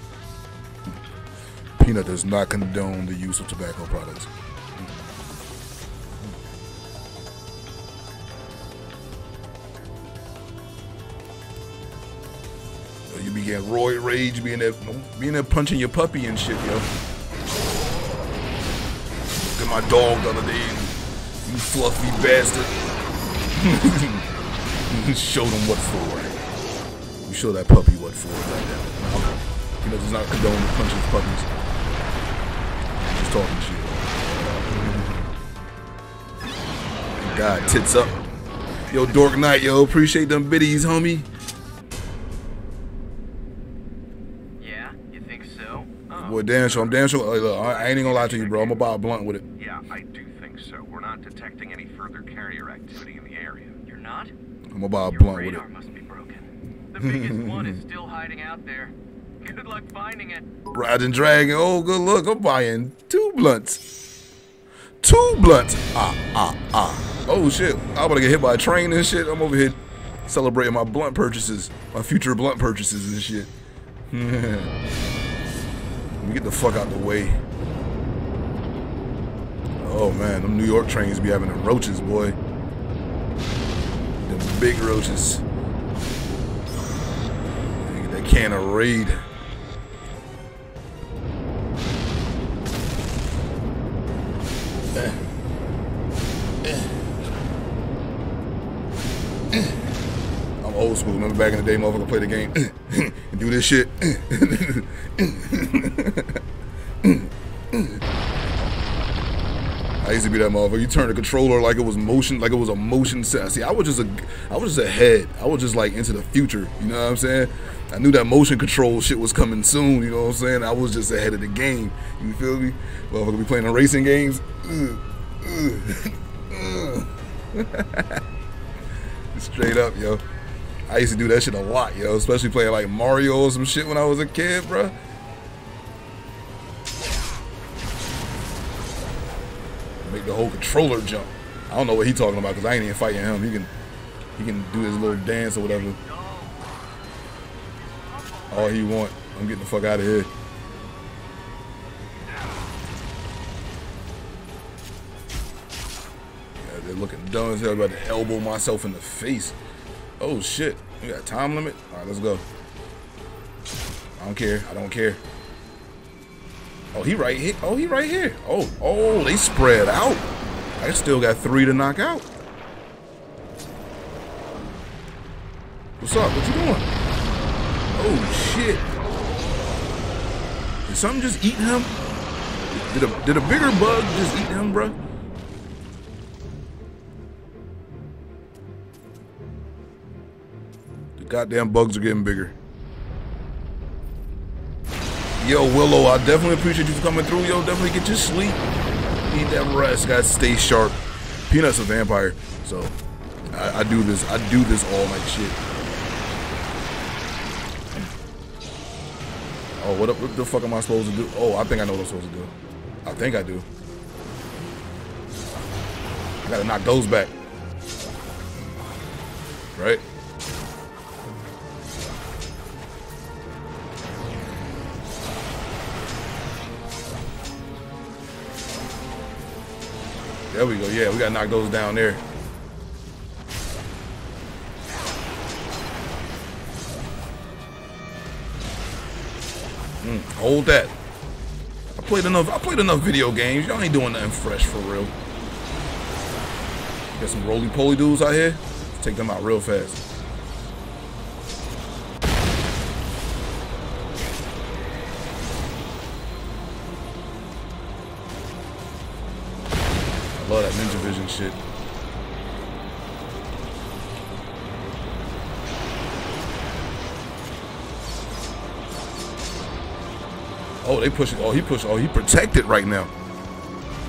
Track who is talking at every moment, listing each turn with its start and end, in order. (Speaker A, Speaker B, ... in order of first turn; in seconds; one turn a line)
Speaker A: 1.8-4.9
Speaker A: 13.1-16.9
Speaker A: 19.4-22.8
Speaker A: 23.5-24.2
Speaker A: 24.9-26.3
Speaker A: 27.3-31.5
Speaker A: 33.0-34.0
Speaker A: 34.7-35.2
Speaker A: 37.2-38.2
Speaker A: 38.9-41.3
Speaker B: 44.6-46.7
Speaker A: 46.2-49.5
Speaker C: 47.5-48.8
Speaker B: 48.0-48.7
Speaker C: 49.6-53.8
Speaker B: 53.9-54.3
Speaker A: 54.7-55.6
Speaker B: 55.1-60.5
Speaker A: 57.0-57.8
Speaker A: 60.7-63.8
Speaker A: 65.0-73.5
Speaker A: 74.1-74.7
Speaker A: 76.2-77.4
Speaker A: 79.8-82.4
Speaker A: 84.2-85.4
Speaker A: 87.8-89.2
Speaker A: 100.6-106.4
Speaker A: 107.0-108.0
Speaker A: 110.0-128.2
Speaker A: 129.3-130.2
Speaker A: 130.9-134.9
Speaker A: 140.0-143.7
Speaker A: 144.4-146.0
Speaker B: 146.1-146.6
Speaker B: 148.1-148.8
Speaker A: 148.5-150.3
Speaker A: 156.6-159.6
Speaker A: 160.2-162.4
Speaker A: 164.2-165.2
Speaker A: 166.9-170.2
Speaker A: 170.8-172.3
Speaker A: 176.0-176.9
Speaker A: 177.9-178.8
Speaker A: 180.9-182.0
Speaker A: 182.7-185.0
Speaker A: 191.2-192.5
Speaker A: 195.4-198.6
Speaker A: 199.2-201.0
Speaker A: 201.5-202.9
Speaker A: 203.5-205.6
Speaker A: 209.8-212.5
Speaker A: 213.1-213.7
Speaker A: 216.4-217.3
Speaker A: 219.8-220.0
Speaker A: 230.5-232.2
Speaker A: 240.0-240.9
Speaker A: 241.9-245.1
Speaker A: 247.2-250.0
Speaker A: 260.3-261.6
Speaker A: 270.8-273.1